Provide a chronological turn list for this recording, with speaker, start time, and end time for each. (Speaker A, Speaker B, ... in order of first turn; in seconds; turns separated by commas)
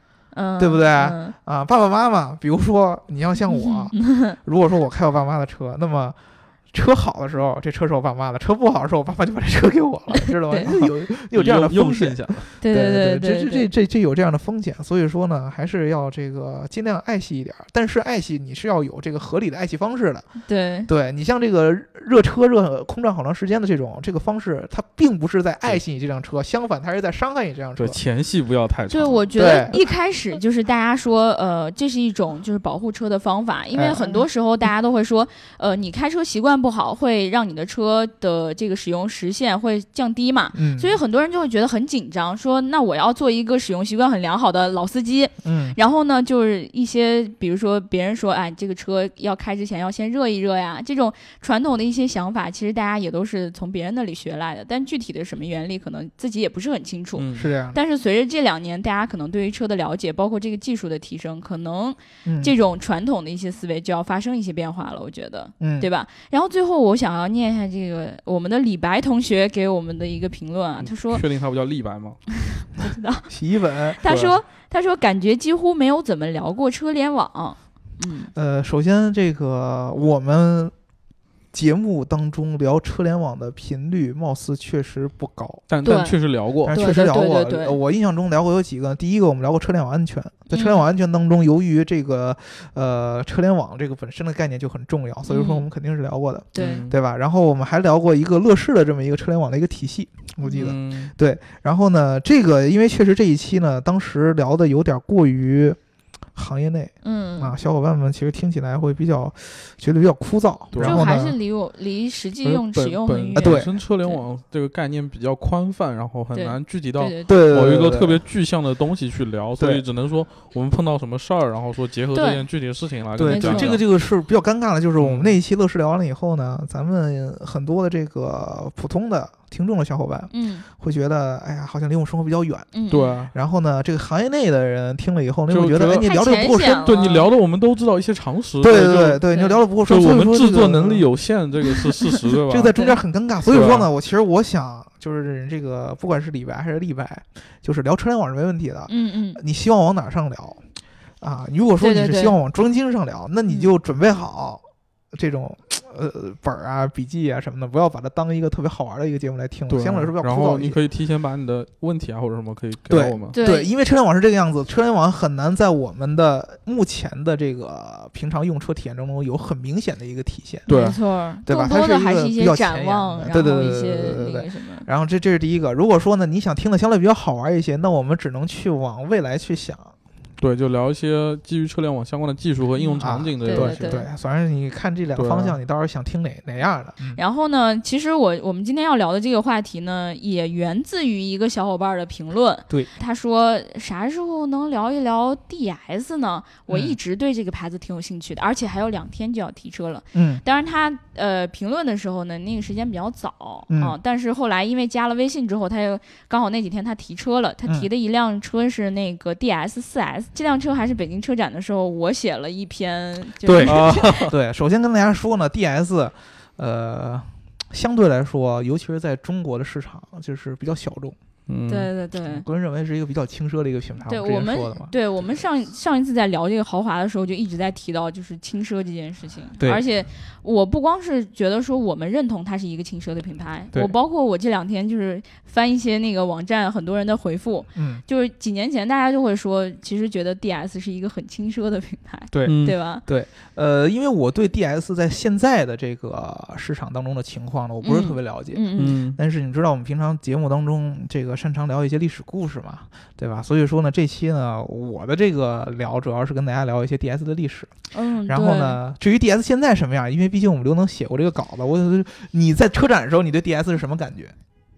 Speaker A: 0.3-1.3, Speaker B: 0.6-6.2, Speaker A: 3.5-4.4, Speaker B: 6.7-20.3, Speaker A: 10.2-10.8, Speaker C: 11.3-12.5, Speaker A: 12.6-13.7, Speaker A: 20.4-20.9, Speaker B: 20.9-28.0, Speaker C: 27.8-29.3, Speaker A: 28.9-71.2, Speaker B: 29.4-29.8, Speaker B: 33.7-34.2, Speaker B: 40.5-41.0, Speaker B: 45.4-45.8, Speaker C: 57.1-57.5, Speaker B: 57.3-57.8, Speaker B: 62.2-62.5, Speaker B: 65.6-65.9, Speaker C: 70.8-72.2, Speaker A: 72.3-73.3, Speaker B: 73.3-74.4, Speaker A: 74.0-78.3, Speaker B: 78.3-80.7, Speaker B: 81.5-85.7, Speaker C: 85.7-86.8, Speaker A: 85.8-86.2, Speaker B: 86.6-105.8, Speaker A: 86.7-87.8, Speaker A: 90.5-90.8, Speaker A: 95.3-95.6, Speaker A: 96.5-96.9, Speaker C: 96.6-97.0, Speaker C: 100.6-101.1, Speaker B: 106.3-111.3, Speaker A: 107.0-107.5, Speaker C: 110.7-111.2, Speaker A: 110.8-114.2, Speaker C: 112.4-123.8, Speaker B: 113.4-113.7, Speaker A: 116.3-117.4, Speaker B: 117.3-118.2, Speaker B: 119.6-119.8, Speaker A: 122.1-122.4, Speaker B: 123.2-132.7, Speaker A: 123.2-123.8, Speaker C: 125.0-125.3, Speaker A: 130.3-130.6, Speaker A: 132.7-133.2, Speaker C: 132.9-133.3, Speaker B: 133.3-137.0, Speaker C: 135.5-136.1, Speaker A: 136.0-137.2, Speaker C: 136.8-139.2, Speaker B: 138.6-141.1, Speaker A: 139.3-139.6, Speaker C: 139.9-142.7, Speaker B: 142.5-150.6, Speaker C: 143.4-143.9, Speaker A: 148.9-149.4, Speaker B: 151.2-160.8, Speaker A: 151.8-152.3, Speaker C: 159.7-163.4, Speaker B: 162.9-170.7, Speaker A: 163.3-163.7, Speaker C: 170.7-171.0, Speaker A: 170.7-174.8, Speaker B: 171.4-179.9, Speaker C: 180.4-184.0, Speaker A: 182.8-184.1, Speaker B: 183.0-187.2, Speaker C: 185.2-185.6, Speaker A: 187.2-214.2, Speaker B: 196.7-197.0, Speaker B: 200.1-200.4, Speaker B: 203.7-204.0, Speaker B: 213.4-221.2, Speaker C: 213.6-214.3, Speaker C: 221.5-221.9, Speaker A: 221.7-222.4, Speaker B: 222.2-224.9, Speaker A: 224.1-243.0, Speaker B: 237.7-238.0, Speaker B: 242.3-257.7, Speaker C: 242.4-242.8, Speaker A: 247.8-249.0, Speaker C: 248.8-249.2, Speaker A: 257.9-258.8, Speaker B: 258.3-264.3